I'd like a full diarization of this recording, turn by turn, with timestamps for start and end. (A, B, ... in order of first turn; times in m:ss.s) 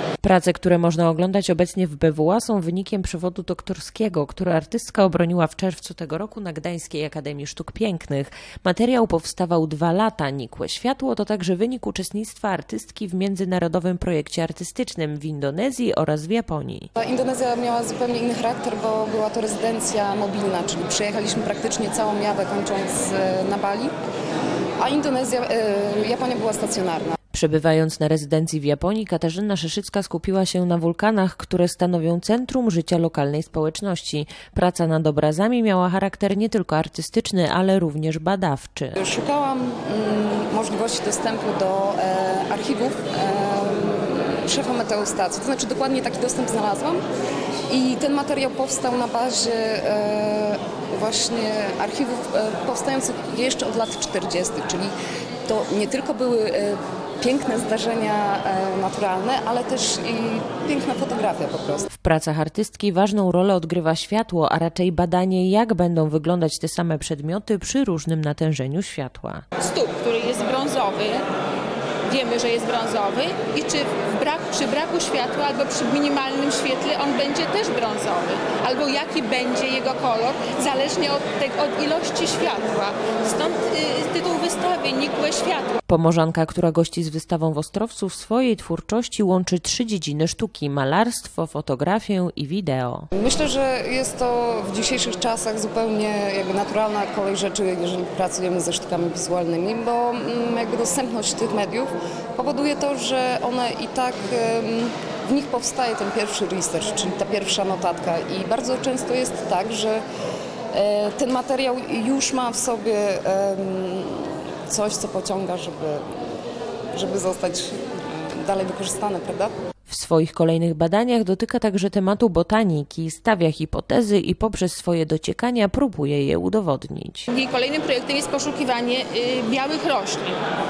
0:00.2-0:16.9 A
0:17.0-0:23.9 B
0:24.8-0:27.2 B
0:27.3-0:39.0 A
0:39.0-0:47.0 B
0:47.7-0:54.9 B
0:55.5-1:01.9 B
1:01.9-1:09.4 A
1:09.6-1:11.2 C
1:12.1-1:25.8 C
1:25.9-1:33.1 A
1:33.1-1:50.0 B
1:50.7-1:56.0 B
1:56.9-1:59.5 B
1:59.9-2:07.3 A
2:07.3-2:10.4 C